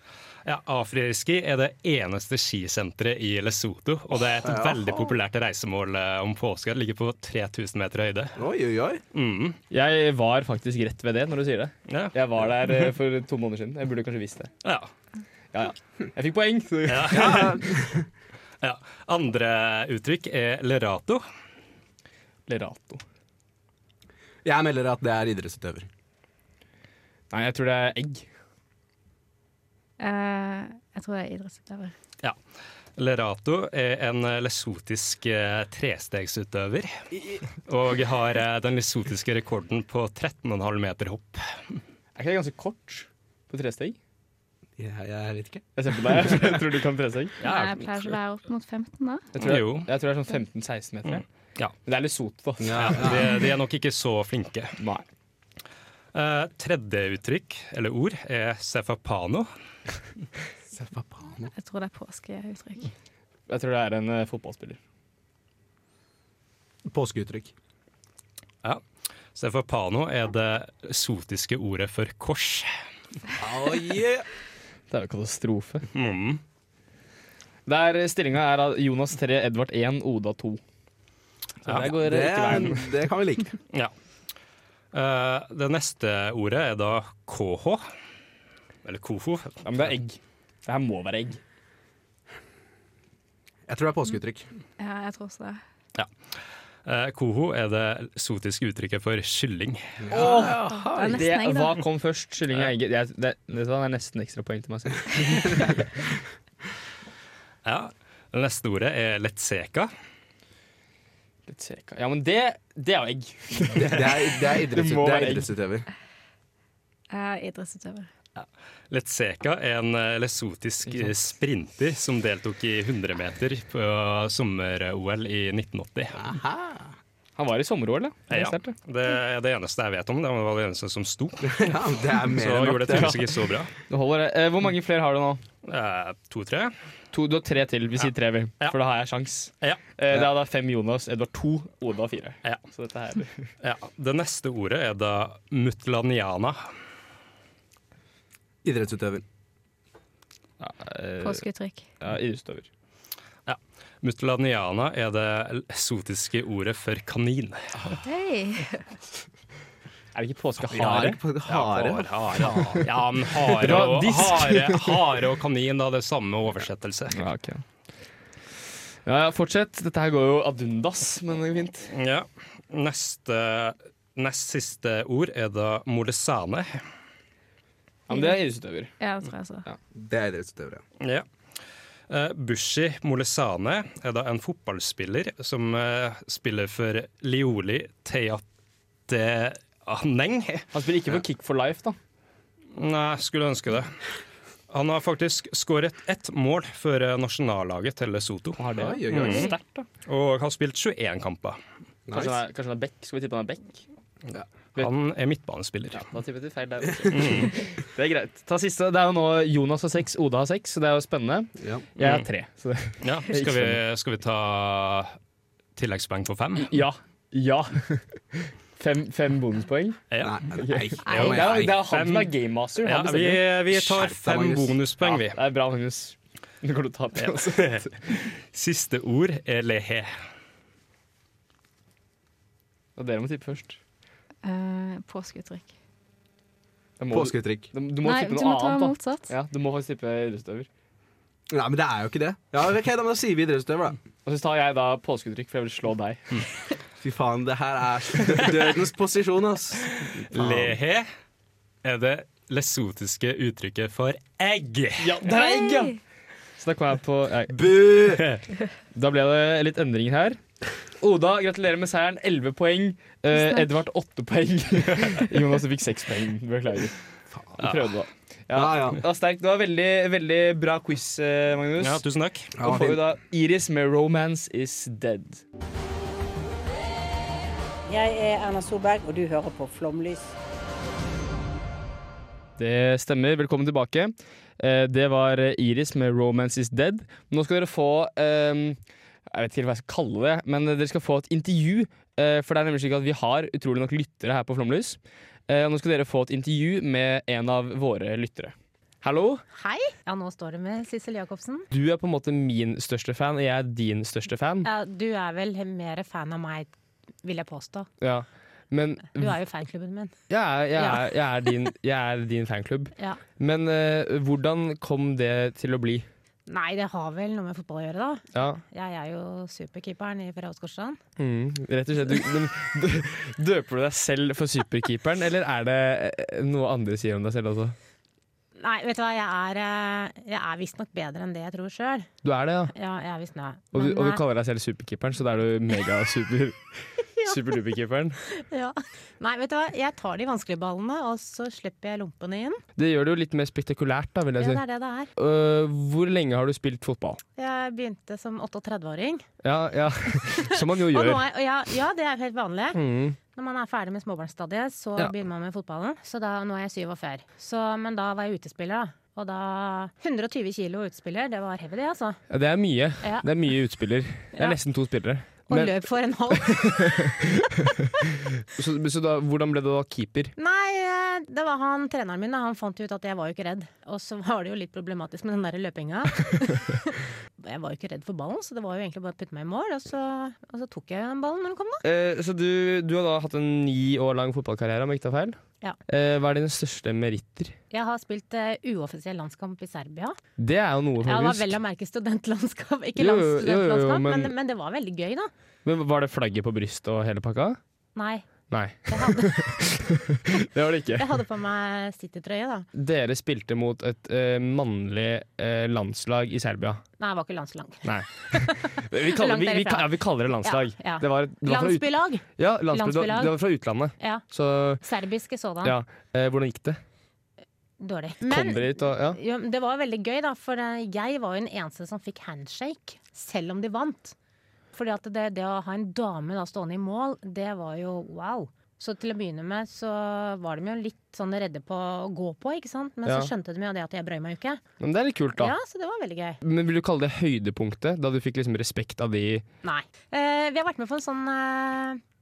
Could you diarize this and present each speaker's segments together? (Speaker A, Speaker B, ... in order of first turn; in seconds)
Speaker A: 0.4-8.4, 9.1-9.6, 11.9-12.1, 14.6-14.9, 16.9-17.6, 18.6-21.2, 33.0-36.9, 37.6-41.5, 47.4-48.1, 49.4-49.9, 51.1-51.7, 52.8-54.8, 56.1-59.5, 69.3-72.7, 75.9-76.4, 81.7-81.9, 84.9-87.8, 88.8-89.8, 96.8-100.0, 107.6-109.9, 118.4-126.2, 128.3-133.7, 135.6-136.7, 143.6-146.6, 153.4-157.9, 161.4-167.2, 171.9-176.8, 181.0-181.2, 182.1-188.4, 189.1-190.7, 192.7-193.9, 194.7-199.5, 200.1-201.6, 204.8-206.0, 207.1-207.5, 212.0-212.2, 213.0-215.2, 215.8-216.8, 220.1-220.4, 221.0-225.4, 227.2-230.1, 250.3-251.1, 251.8-255.1, 271.8-272.5
Speaker B: 4.4-5.1, 8.3-9.0, 17.1-18.0, 24.4-25.9, 44.8-46.5, 52.6-53.3, 60.7-61.5, 66.8-67.5, 73.4-74.2, 81.8-83.5, 93.7-94.5, 100.0-101.2, 113.8-115.8, 126.1-126.9, 131.4-133.3, 148.6-149.2, 160.7-162.6, 179.9-180.8, 198.8-199.5, 202.1-202.4, 211.6-211.8, 220.2-221.8, 223.7-224.8, 237.1-237.7, 241.5-244.0, 247.0-250.8, 257.5-258.3, 268.5-269.0, 272.6-273.0
Speaker C: 9.7-14.5, 15.5-17.5, 22.5-23.0, 27.3-28.3, 42.1-44.0, 45.8-47.4, 49.3-51.2, 51.8-53.0, 54.8-55.0, 63.5-64.8, 74.9-75.8, 77.7-80.6, 81.6-82.9, 89.6-91.4, 100.1-105.6, 111.5-115.5, 127.4-128.7, 133.9-135.4, 137.1-143.4, 150.6-151.4, 152.0-152.7, 160.1-161.2, 163.6-164.9, 167.1-167.6, 169.1-171.9, 178.1-178.9, 190.7-192.0, 198.6-199.8, 202.1-203.8, 205.9-213.8, 216.6-220.0, 220.6-223.4, 225.0-227.9, 233.0-233.8, 237.0-240.7, 244.2-246.4, 255.0-256.0, 256.6-257.6, 258.9-260.4, 261.0-266.9, 267.6-272.0, 272.6-275.4, 282.6-288.8, 289.3-299.4, 301.7-304.7, 308.0-309.4, 310.3-316.1, 318.3-318.6, 321.2-327.8, 332.2-332.7, 333.7-336.6, 337.2-338.2, 342.8-344.6, 345.1-347.2, 349.4-351.2, 352.7-353.2, 362.3-365.8, 366.4-367.3, 368.5-370.3, 381.8-385.4, 385.9-387.5, 390.4-391.6, 392.9-394.3, 395.6-397.6, 398.5-401.1, 402.7-406.8, 407.8-414.8, 415.6-416.8, 418.2-419.2, 433.0-433.3, 434.8-435.5, 436.4-439.4
Speaker D: 30.0-31.9, 47.4-49.2, 61.5-62.9, 94.8-95.6, 100.4-101.8, 117.1-118.1, 151.2-151.8, 158.0-158.8, 178.1-178.4, 179.0-179.7, 234.4-235.7, 238.0-239.3, 255.3-256.0, 263.3-263.7
Speaker E: 277.9-280.3
Speaker F: 299.5-301.7, 304.6-306.7, 307.2-307.9, 309.1-310.1, 310.8-311.1, 316.5-321.0, 328.6-332.1, 332.7-334.2, 337.2-337.6, 338.4-342.6, 344.4-345.1, 347.4-349.2, 350.1-362.2, 363.0-363.3, 364.3-364.6, 365.5-367.1, 370.4-381.8, 387.7-390.2, 391.0-395.3, 397.9-398.2, 398.9-399.6, 400.9-402.7, 407.0-413.4, 414.0-414.2, 414.8-415.8, 417.8-424.1, 424.7-434.6, 435.4-436.4, 439.6-442.0